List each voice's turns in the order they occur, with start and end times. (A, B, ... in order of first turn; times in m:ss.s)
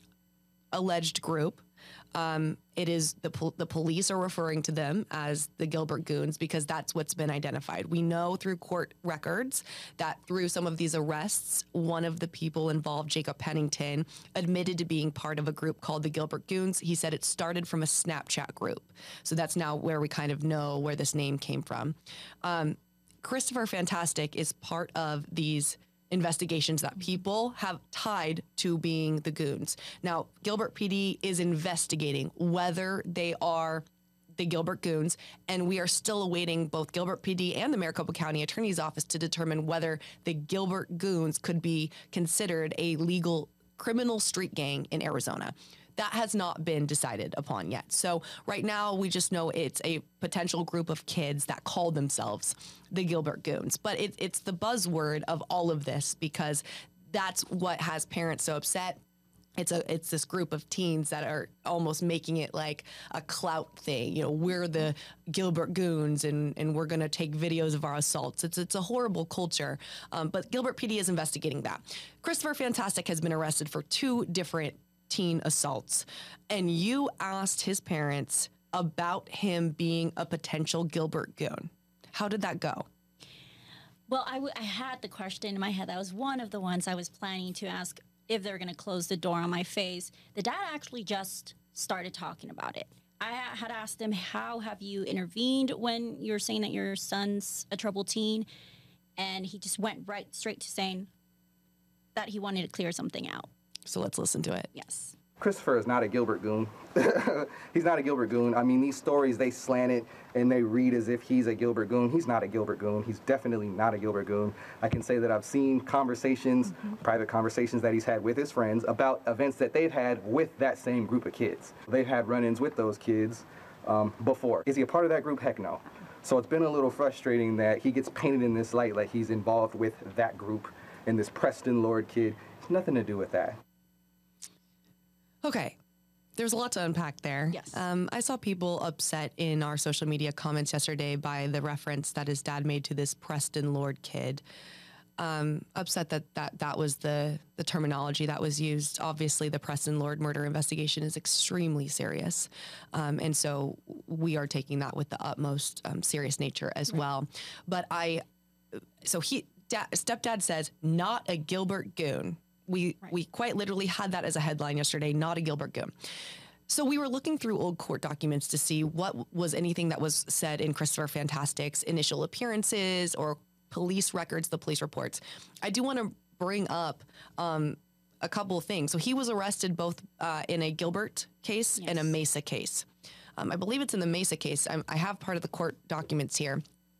0:00.7-0:59.0 A
0:59.6-1:22.9 A
1:24.1-1:38.5 B
1:39.2-1:41.1 B
1:42.2-1:43.5 B
1:43.9-1:44.7 A
1:44.7-1:45.1 B
1:45.4-2:13.6 C
2:15.4-2:15.8 A
2:16.4-2:24.4 A
2:17.5-2:17.8 B
2:25.2-2:45.9 A
2:46.7-3:02.9 A
3:01.8-3:02.1 B
3:03.4-3:06.6 A